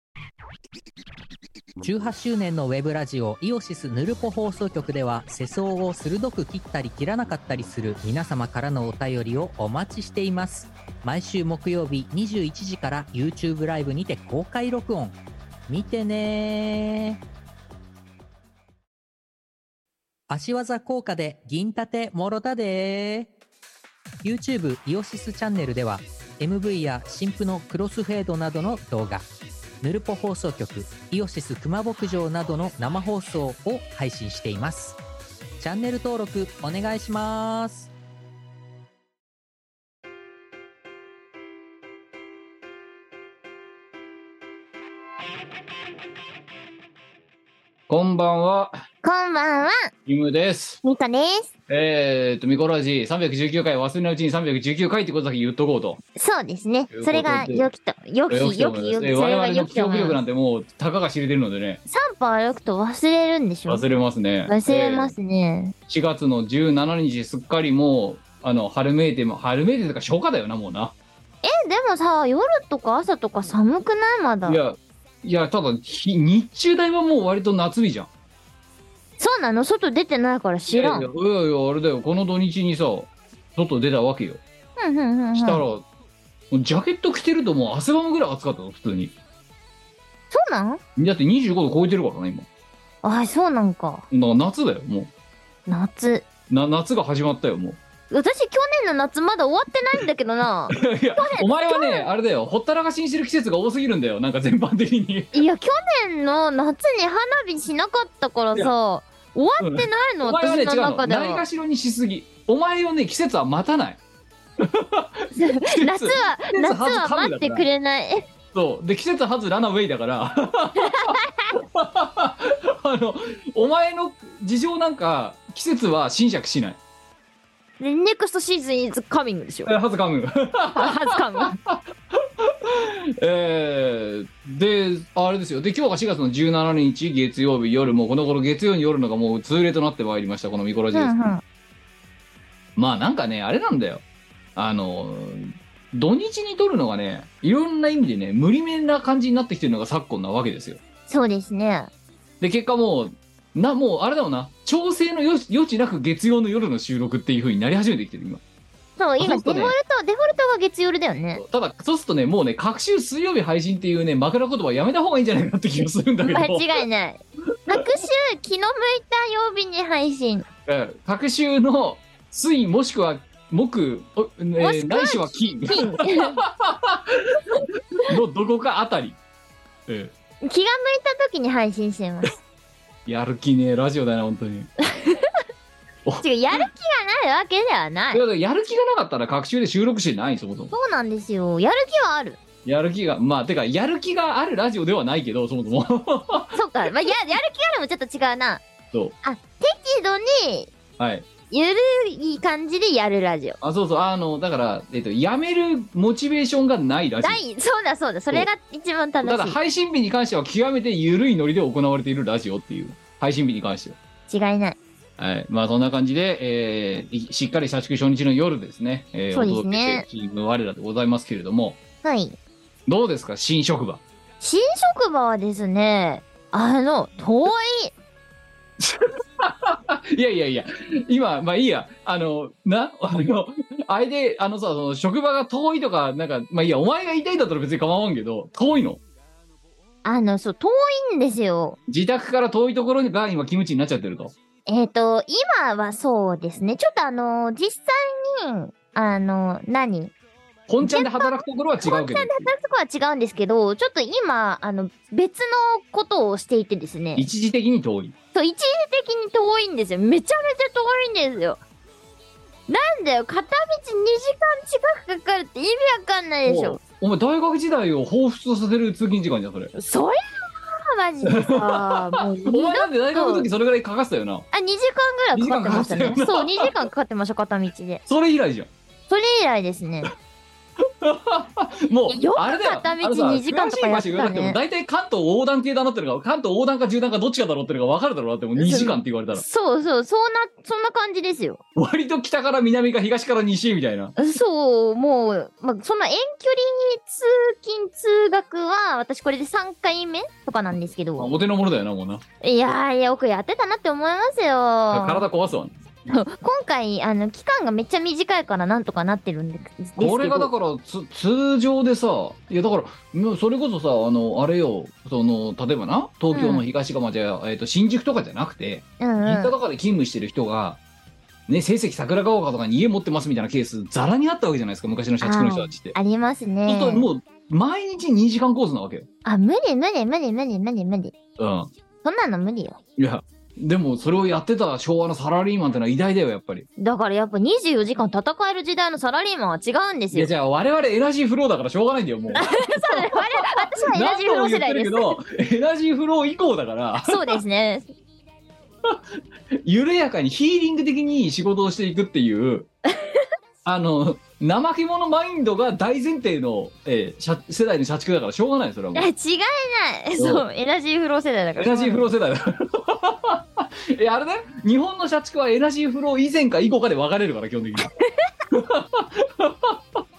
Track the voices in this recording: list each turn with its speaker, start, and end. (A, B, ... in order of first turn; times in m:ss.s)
0:01.8-0:17.2 A
0:20.3-0:23.3 A
0:24.2-0:29.2 A
0:29.8-0:35.0 A
0:35.6-0:37.9 A
0:47.9-0:48.7 B
0:49.0-0:49.8 C
0:50.0-0:50.8 B
0:50.8-0:51.5 C
0:51.7-0:56.0 B
0:56.2-1:00.2 C
0:56.9-0:57.7 B
0:58.3-1:01.8 B
1:01.9-1:03.8 C
1:03.7-1:05.1 B
1:04.4-1:05.7 C
1:05.9-1:10.9 B
1:11.4-1:14.6 C
1:14.4-1:18.1 B
1:19.2-1:21.1 C
1:20.7-1:24.4 B
1:24.8-1:25.6 C
1:25.3-1:25.8 B
1:26.5-1:29.1 B
1:30.3-1:30.8 C
1:31.0-1:32.5 B
1:33.0-1:34.0 C
1:34.1-1:35.1 B
1:35.7-1:36.2 C
1:36.5-1:37.8 B
1:38.1-1:42.1 C
1:40.7-1:45.4 B
1:45.3-1:51.4 C
1:49.6-1:54.0 B
1:54.6-1:57.7 B
1:55.3-1:58.3 C
1:58.5-2:06.8 B
2:00.8-2:01.5 C
2:07.8-2:09.7 C
2:09.6-2:21.1 B
2:10.8-2:11.6 C
2:20.9-2:21.4 C
2:22.8-2:24.0 B
2:24.6-2:30.8 B
2:31.1-2:31.9 C
2:32.4-2:38.4 B
2:39.0-2:41.4 C
2:39.2-2:39.8 B
2:41.4-2:46.8 B
2:46.2-2:50.5 C
2:50.6-2:59.2 B
2:54.6-2:56.4 C
2:59.9-3:00.1 B
3:00.4-3:02.3 C
3:03.0-3:04.7 B
3:04.8-3:05.3 C
3:06.0-3:06.7 B
3:06.2-3:08.2 C
3:08.1-3:10.7 B
3:10.7-3:12.4 C
3:12.6-3:16.6 B
3:16.5-3:18.6 C
3:19.2-3:20.7 C
3:21.0-3:21.3 B
3:21.5-3:23.6 C
3:23.6-3:27.4 B
3:27.2-3:29.6 C
3:29.2-3:34.0 B
3:34.3-3:34.8 C
3:35.2-3:41.8 B
3:39.3-3:40.1 C
3:42.0-3:42.4 C
3:42.9-3:44.0 B
3:44.4-3:47.9 C
3:48.8-3:59.0 B
4:00.0-4:01.8 C
4:01.9-4:04.3 B
4:04.7-4:10.1 C
4:10.7-4:12.5 B
4:10.8-4:17.3 C
4:17.2-4:18.1 B
4:18.3-4:21.6 C
4:22.7-4:26.8 C
4:26.4-4:29.7 B
4:29.7-4:33.5 C
4:31.2-4:34.4 B
4:34.5-4:38.0 C
4:35.3-4:36.8 B
4:38.1-4:38.7 B
4:39.1-4:40.1 C
4:40.8-4:49.4 B
4:42.1-4:44.6 C
4:48.6-4:51.6 C
4:51.8-4:54.1 B
4:54.2-5:01.3 C
5:01.1-5:02.2 B
5:02.4-5:05.2 C
5:04.9-5:05.7 B
5:06.1-5:10.5 C
5:10.0-5:20.8 B
5:16.3-5:16.6 C
5:19.0-5:19.5 C
5:21.5-5:25.9 B
5:25.2-5:27.0 C
5:26.6-5:29.1 B
5:29.2-5:31.1 C
5:31.4-5:31.7 B
5:32.0-5:32.8 C
5:33.0-5:36.7 B
5:36.8-5:40.3 C
5:40.1-5:47.4 B
5:42.3-5:45.2 C
5:47.0-5:47.9 C
5:49.5-5:52.7 B
5:53.6-5:59.1 B
5:58.9-6:02.0 C
6:00.2-6:00.4 B
6:01.6-6:07.9 B
6:08.5-6:10.0 B